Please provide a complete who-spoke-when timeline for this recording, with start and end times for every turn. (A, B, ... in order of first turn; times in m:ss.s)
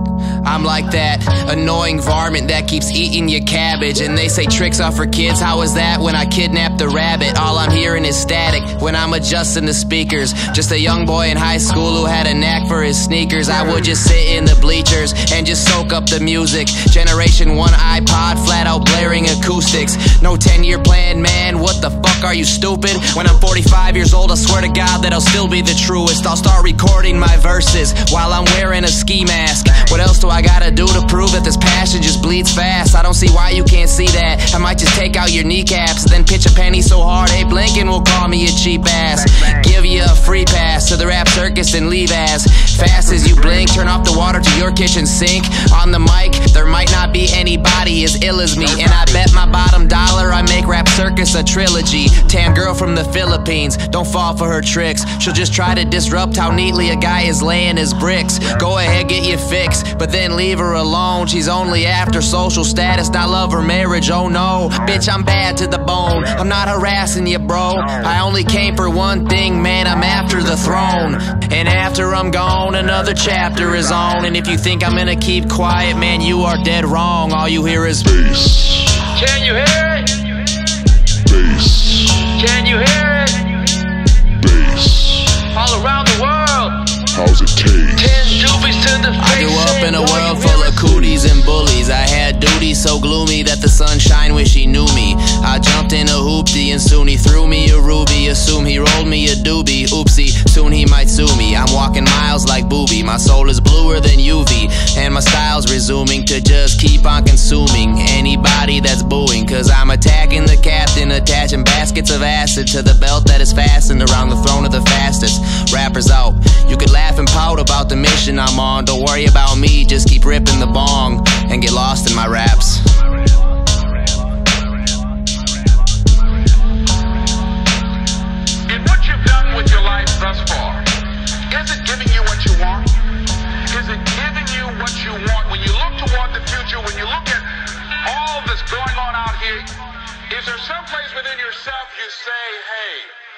0:00.4-1:18.4 A
1:18.2-1:18.9 B
1:19.0-1:20.4 C
1:21.3-1:22.3 B
1:22.2-1:23.8 C
1:24.4-1:25.3 B
1:25.2-1:27.1 C
1:27.1-1:28.5 B
1:27.9-1:30.9 C
1:29.2-2:02.9 A
2:08.7-2:10.9 D
2:11.5-2:13.1 D
2:13.7-2:23.2 D